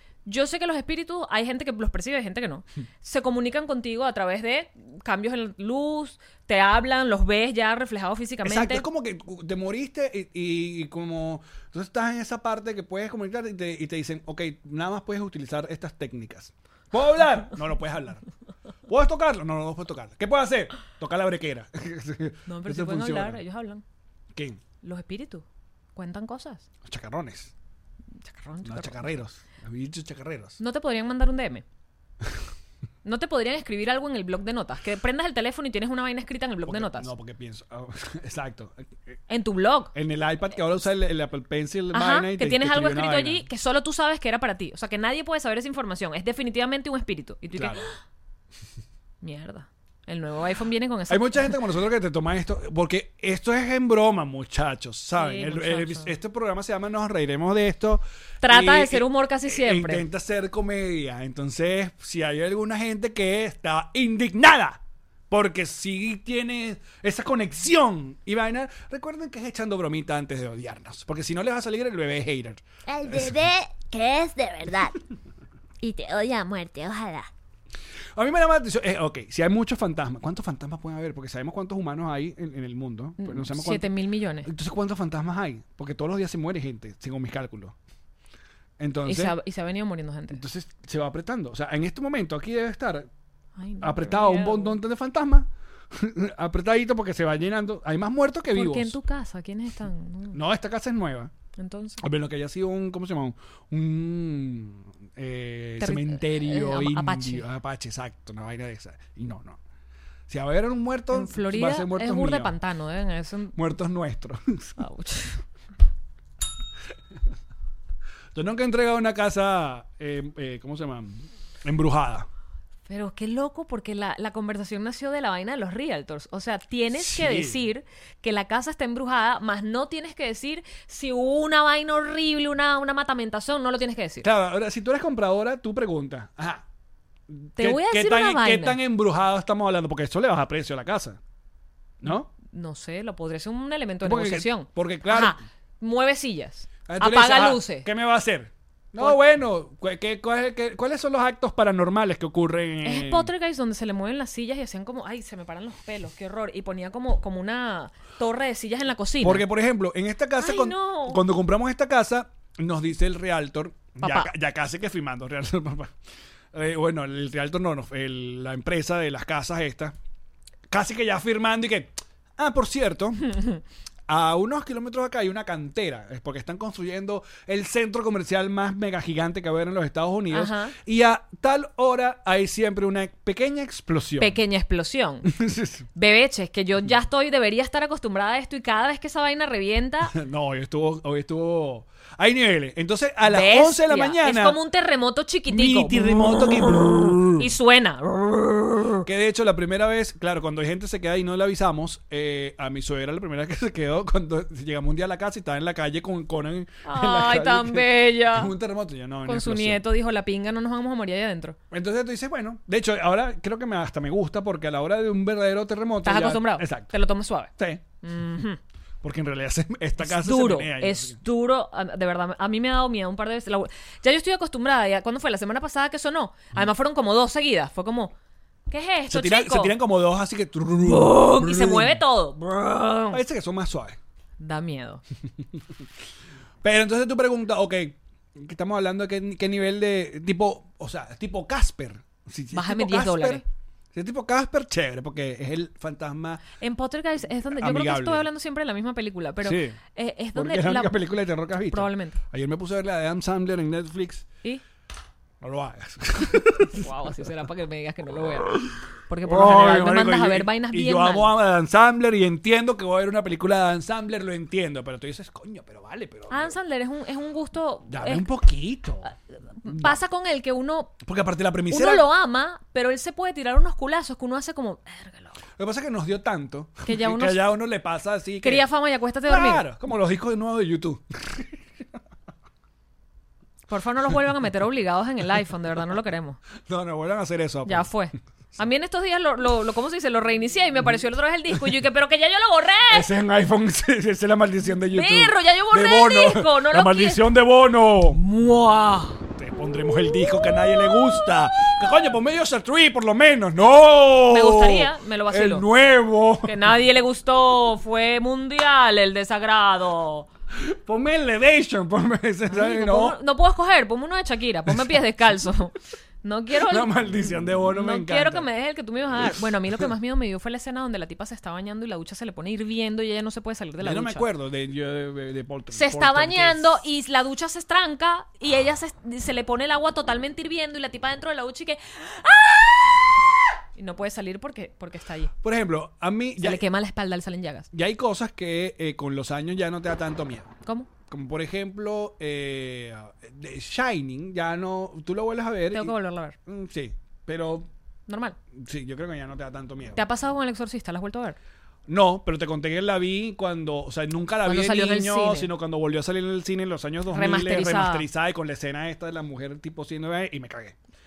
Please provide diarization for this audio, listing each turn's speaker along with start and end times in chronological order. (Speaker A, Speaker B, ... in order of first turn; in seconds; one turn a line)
Speaker A: 0.2-8.8
Speaker B: 8.4-18.2
Speaker B: 18.9-23.4
Speaker A: 22.5-23.8
Speaker B: 24.3-24.6
Speaker A: 24.8-26.6
Speaker B: 26.9-27.5
Speaker A: 28.2-29.1
Speaker B: 28.6-30.6
Speaker A: 30.6-31.6
Speaker A: 33.0-37.1
Speaker B: 36.6-39.2
Speaker A: 39.3-39.9
Speaker B: 39.9-43.5
Speaker A: 41.9-47.9
Speaker B: 47.5-47.9
Speaker A: 49.2-51.6
Speaker B: 51.1-73.3
Speaker A: 55.2-56.1
Speaker A: 58.4-60.0
Speaker C: 72.9-74.9
Speaker C: 75.8-77.3
Speaker B: 78.2-83.9
Speaker A: 83.2-84.5
Speaker B: 84.4-87.7
Speaker B: 88.8-89.3
Speaker A: 89.1-90.4
Speaker B: 90.3-93.1
Speaker A: 93.6-94.8
Speaker B: 93.8-99.0
Speaker A: 98.5-100.4
Speaker B: 100.3-101.3
Speaker A: 101.6-102.0
Speaker B: 102.0-109.6
Speaker A: 105.8-107.4
Speaker B: 110.3-112.5
Speaker A: 111.1-113.6
Speaker B: 113.5-114.8
Speaker A: 114.8-115.4
Speaker B: 118.3-122.3
Speaker A: 122.9-134.3
Speaker B: 126.9-127.6
Speaker B: 134.2-136.6
Speaker B: 137.3-141.2
Speaker A: 137.6-138.8
Speaker B: 142.0-142.3
Speaker A: 142.5-147.9
Speaker B: 144.0-145.4
Speaker B: 146.9-153.3
Speaker A: 152.8-159.4
Speaker B: 159.2-165.9
Speaker A: 160.4-161.2
Speaker A: 164.0-164.3
Speaker B: 166.5-169.9
Speaker B: 170.7-173.2
Speaker B: 174.1-184.4
Speaker A: 180.3-180.7
Speaker A: 184.2-185.3
Speaker B: 185.3-185.9
Speaker A: 185.9-190.1
Speaker B: 190.1-194.6
Speaker A: 193.2-199.0
Speaker B: 195.5-197.5
Speaker B: 199.0-209.8
Speaker A: 206.8-208.5
Speaker A: 209.2-211.6
Speaker B: 211.7-216.9
Speaker A: 216.0-217.5
Speaker B: 217.6-217.8
Speaker A: 218.0-218.6
Speaker B: 219.0-221.2
Speaker A: 220.0-228.1
Speaker A: 228.7-229.7
Speaker B: 229.1-232.0
Speaker A: 230.8-233.2
Speaker B: 233.1-234.0
Speaker A: 234.4-235.0
Speaker B: 236.6-243.4
Speaker A: 242.5-243.4
Speaker B: 243.9-246.4
Speaker A: 246.5-251.0
Speaker B: 247.6-248.3
Speaker B: 249.4-249.8
Speaker B: 250.3-254.3
Speaker A: 251.7-252.2
Speaker B: 255.4-256.9
Speaker A: 256.7-261.3
Speaker B: 259.2-266.6
Speaker A: 266.3-268.2
Speaker B: 267.9-269.1
Speaker A: 269.6-270.9
Speaker B: 269.6-270.0
Speaker B: 271.0-272.1
Speaker A: 271.7-275.4
Speaker B: 275.6-278.6
Speaker A: 276.9-277.4
Speaker A: 278.4-279.6
Speaker B: 279.2-281.6
Speaker A: 283.7-286.4
Speaker B: 286.6-287.9
Speaker A: 287.6-293.1
Speaker B: 292.9-298.2
Speaker A: 294.9-297.3
Speaker A: 298.1-299.2
Speaker B: 299.4-306.6
Speaker A: 304.3-305.7
Speaker A: 306.4-310.3
Speaker B: 310.6-313.2
Speaker A: 312.5-317.1
Speaker B: 314.7-315.0
Speaker B: 316.6-318.5
Speaker A: 317.7-324.3
Speaker B: 323.8-326.8
Speaker A: 325.7-333.2
Speaker A: 333.8-335.3
Speaker B: 335.4-336.6
Speaker A: 336.4-337.7
Speaker B: 337.7-340.5
Speaker B: 341.1-345.9
Speaker A: 345.7-346.4
Speaker B: 346.4-347.7
Speaker A: 348.1-348.4
Speaker B: 348.6-350.0
Speaker A: 350.0-351.4
Speaker B: 351.9-360.8
Speaker A: 354.4-355.5
Speaker A: 357.1-358.1